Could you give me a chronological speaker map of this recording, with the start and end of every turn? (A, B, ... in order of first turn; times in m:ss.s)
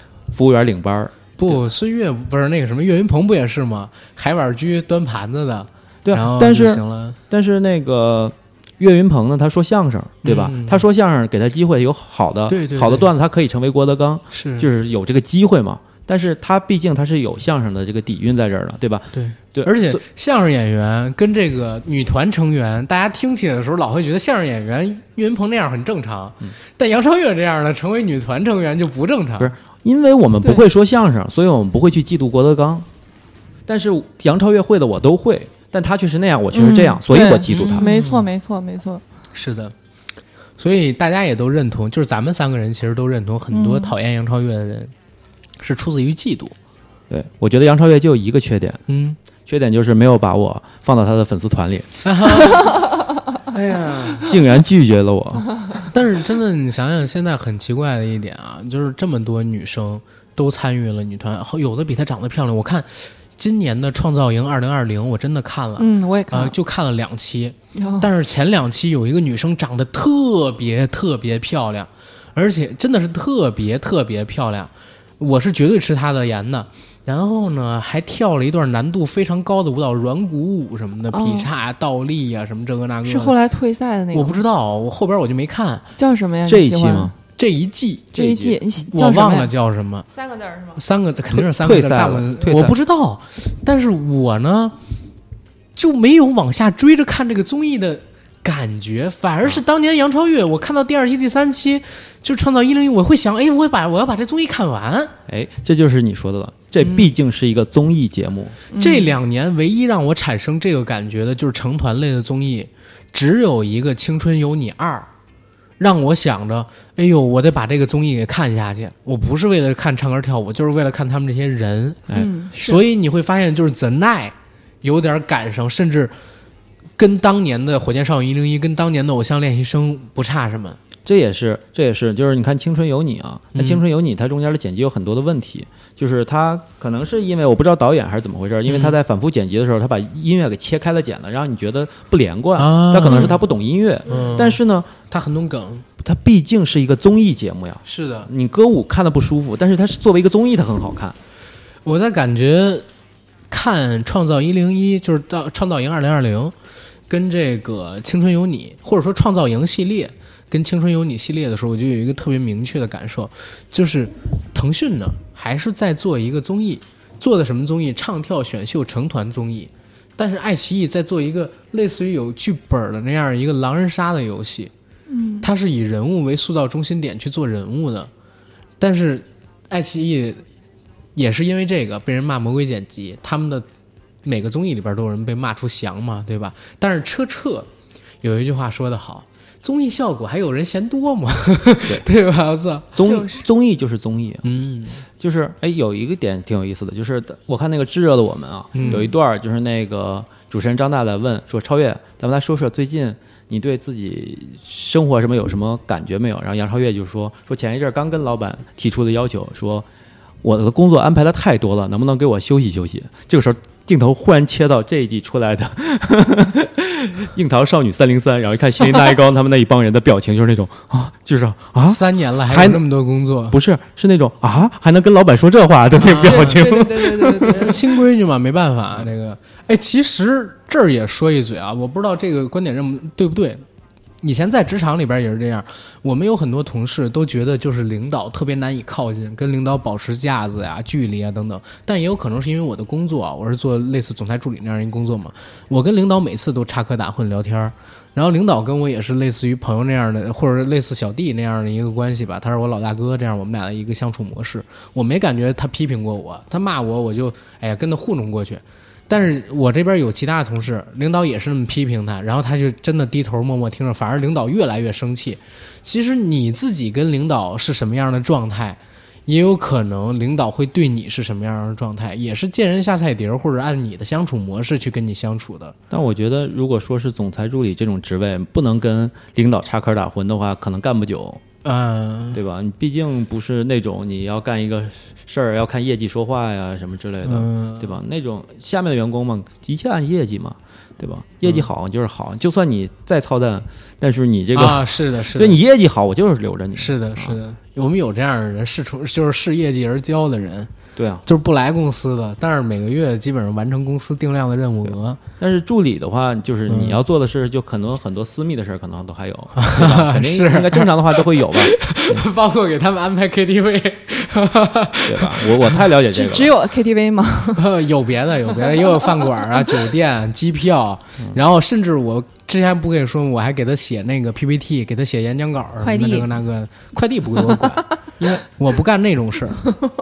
0:00.3-0:01.6 A
0:01.4-0:07.2 B
0:06.0-0:20.0 A
0:10.2-0:10.8 B
0:12.5-0:13.1 B
0:14.3-0:14.7 B
0:19.1-0:29.5 B
0:29.4-0:32.9 A
0:33.7-0:37.9 A
0:36.5-0:39.0 C
0:37.6-0:38.3 B
0:39.3-0:39.7 B
0:40.6-0:44.9 B
0:43.5-0:43.9 C
0:45.6-0:46.5 B
0:47.1-0:48.8 A
0:48.9-0:49.2 B
0:49.4-0:51.9 A
0:52.0-0:52.7 B
0:53.5-0:54.3 B
0:54.2-0:55.5 A
0:55.9-1:23.3 B
1:05.8-1:06.5 C
1:07.7-1:08.1 C
1:21.1-1:21.5 C
1:23.0-1:24.4 C
1:24.1-1:25.9 B
1:26.0-1:27.1 C
1:26.4-1:27.1 A
1:27.3-1:28.1 B
1:28.1-1:28.6 A
1:28.1-1:29.5 C
1:28.8-1:30.1 B
1:30.1-1:30.8 C
1:30.8-1:34.8 B
1:31.3-1:32.7 A
1:35.8-1:45.1 B
1:45.3-1:48.6 A
1:46.8-1:47.1 B
1:48.7-1:49.1 C
1:48.7-1:55.1 B
1:55.8-2:06.1 B
2:02.1-2:02.8 C
2:07.0-2:10.8 B
2:11.0-2:24.9 A
2:13.5-2:13.8 B
2:18.7-2:19.0 B
2:22.6-2:23.4 B
2:24.1-2:25.9 B
2:26.0-2:31.2 A
2:27.8-2:28.3 B
2:31.8-2:32.8 B
2:33.5-2:36.5 B
2:37.1-2:54.7 B
2:55.1-2:55.5 C
2:55.4-2:58.1 B
2:58.8-3:00.4 B
3:01.2-3:03.6 B
3:04.2-3:07.7 B
3:08.2-3:12.9 B
3:12.9-3:14.4 A
3:13.0-3:13.4 C
3:14.4-3:15.0 B
3:15.2-3:29.9 A
3:18.7-3:19.1 B
3:18.8-3:19.1 C
3:30.4-3:42.8 A
3:41.8-3:43.6 B
3:43.5-3:47.7 A
3:46.0-3:46.7 B
3:46.1-3:47.8 C
3:47.4-3:53.6 B
3:54.2-4:35.7 B
4:35.9-4:41.4 A
4:41.6-4:42.4 B
4:42.3-4:57.4 A
4:47.2-4:47.9 B
4:54.5-4:55.6 B
4:56.7-5:00.7 B
5:01.0-5:01.2 A
5:01.2-5:05.2 B
5:05.4-5:12.2 A
5:06.7-5:07.0 B
5:09.6-5:15.9 B
5:15.1-5:16.6 A
5:16.1-5:17.7 C
5:17.5-5:29.6 B
5:18.7-5:19.3 C
5:25.8-5:26.3 C